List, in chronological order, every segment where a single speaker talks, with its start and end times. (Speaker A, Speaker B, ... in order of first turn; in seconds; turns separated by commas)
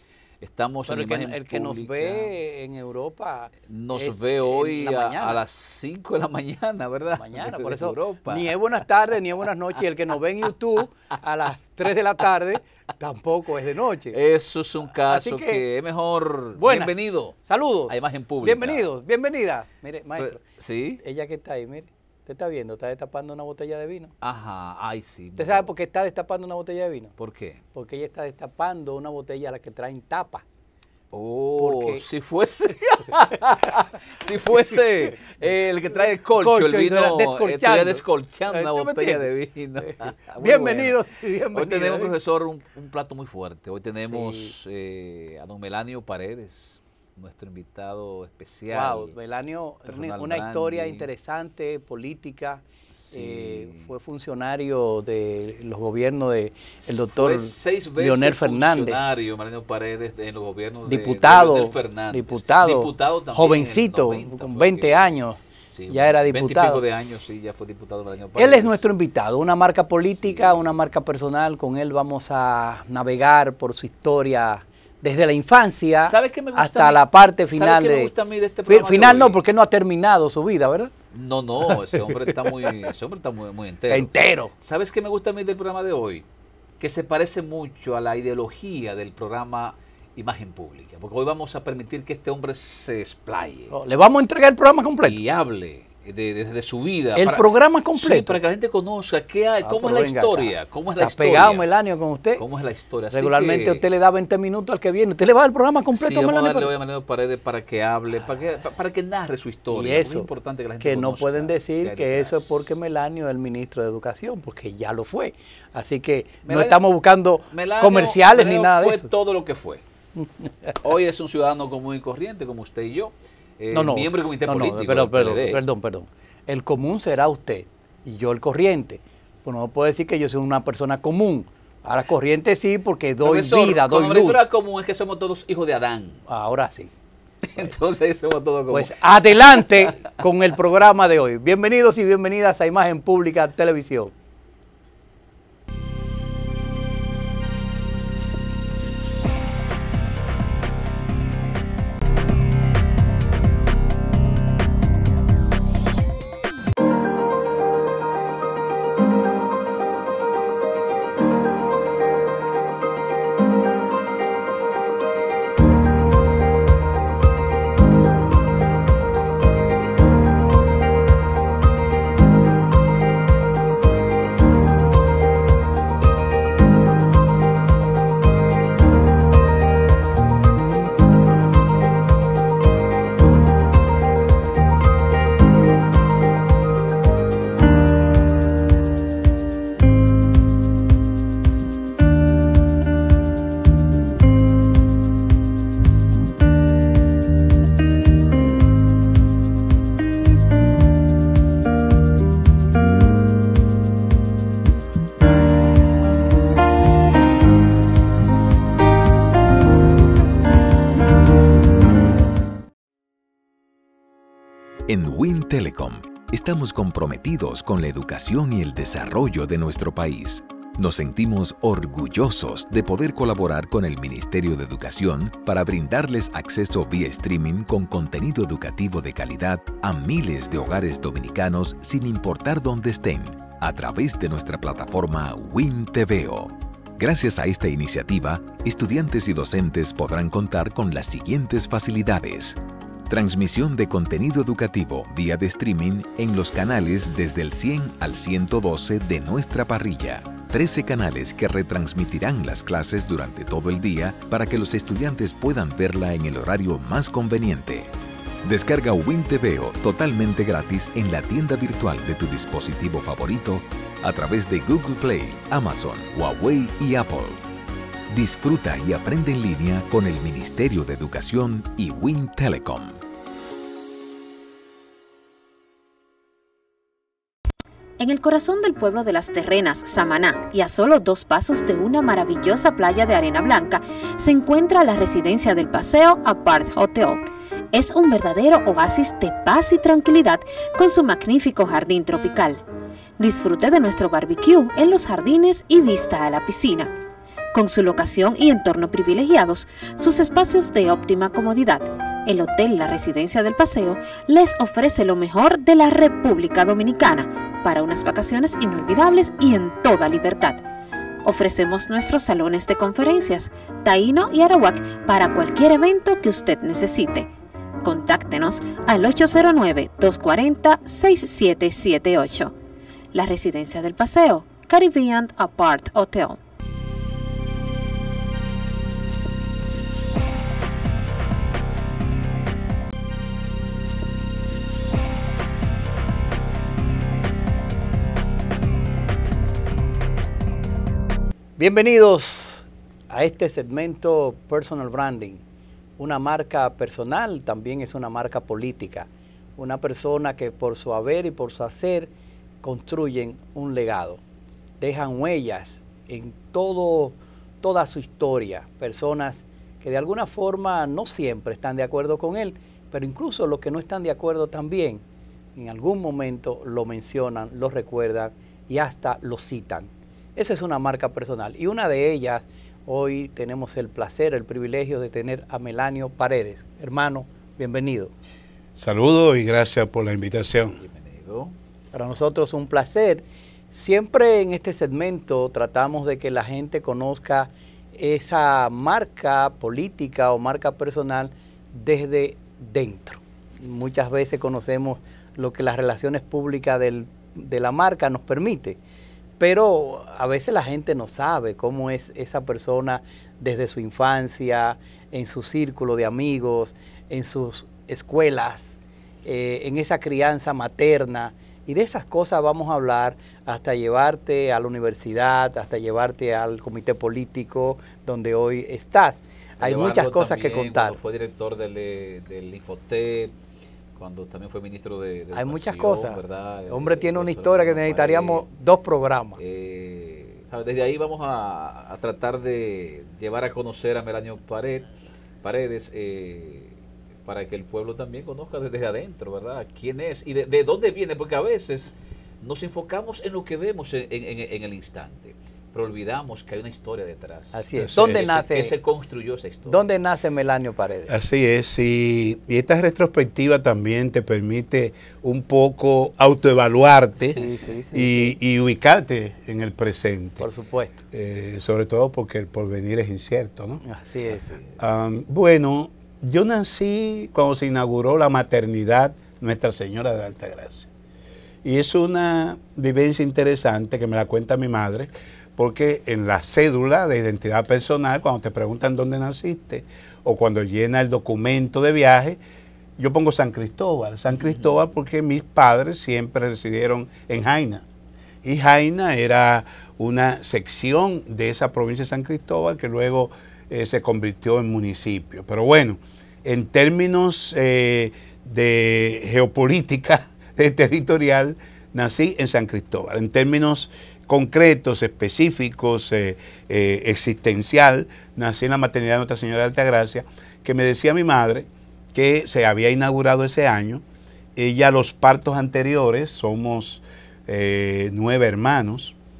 Speaker A: 0.4-2.3, Speaker B: 0.9-5.4, Speaker A: 3.7-8.5, Speaker B: 7.2-14.2, Speaker A: 14.1-17.4, Speaker B: 15.1-15.6, Speaker B: 16.6-20.4, Speaker A: 17.9-18.9, Speaker A: 20.2-21.0, Speaker B: 21.0-24.1, Speaker A: 24.2-25.7, Speaker B: 25.4-27.1, Speaker A: 27.2-27.6, Speaker B: 27.7-30.4, Speaker A: 31.1-41.0, Speaker B: 31.6-32.0, Speaker B: 34.5-35.3, Speaker B: 36.3-39.3, Speaker B: 39.8-42.1, Speaker A: 41.5-49.1, Speaker B: 44.0-44.5, Speaker B: 48.7-59.2, Speaker A: 49.9-51.1, Speaker A: 52.9-53.9, Speaker A: 56.8-65.0, Speaker B: 60.9-66.8, Speaker A: 65.7-68.8, Speaker B: 68.4-78.1, Speaker A: 70.2-70.6, Speaker A: 76.0-79.4, Speaker B: 78.7-80.9, Speaker A: 81.1-86.2, Speaker B: 81.7-82.3, Speaker B: 83.9-84.5, Speaker A: 86.8-93.7, Speaker B: 93.7-95.2, Speaker A: 95.0-101.7, Speaker B: 97.2-98.4, Speaker B: 99.6-102.4, Speaker A: 102.4-103.8, Speaker B: 103.1-106.7, Speaker A: 105.9-112.5, Speaker B: 109.7-110.3, Speaker B: 110.8-119.1, Speaker A: 116.5-116.8, Speaker A: 117.5-119.8, Speaker B: 120.2-120.8, Speaker A: 120.8-125.6, Speaker B: 123.7-134.4, Speaker A: 133.2-136.2, Speaker B: 136.3-136.9, Speaker A: 137.5-140.1, Speaker B: 138.7-144.1, Speaker C: 214.9-267.4, Speaker C: 268.1-273.0, Speaker D: 278.0-292.6, Speaker D: 293.2-296.9, Speaker D: 297.5-310.6, Speaker D: 311.2-317.3, Speaker D: 317.8-322.5, Speaker D: 323.1-326.4, Speaker B: 341.6-345.4, Speaker B: 346.0-352.1, Speaker B: 352.6-354.2, Speaker B: 354.8-365.0, Speaker B: 365.5-378.1, Speaker E: 378.8-380.8, Speaker A: 380.8-381.5, Speaker B: 381.9-398.8, Speaker B: 399.4-421.0, Speaker A: 419.6-423.3, Speaker A: 423.9-428.5, Speaker B: 425.3-429.4, Speaker A: 429.4-434.9, Speaker A: 435.4-449.8, Speaker B: 447.5-448.7, Speaker E: 447.7-448.3, Speaker B: 449.7-451.1, Speaker E: 451.1-457.4, Speaker B: 457.2-458.4, Speaker E: 457.9-460.5, Speaker B: 460.4-461.0, Speaker E: 461.1-463.8, Speaker B: 463.8-464.6, Speaker E: 464.8-470.9, Speaker E: 471.6-482.4, Speaker E: 483.0-487.8, Speaker E: 488.4-514.0, Speaker E: 514.5-519.1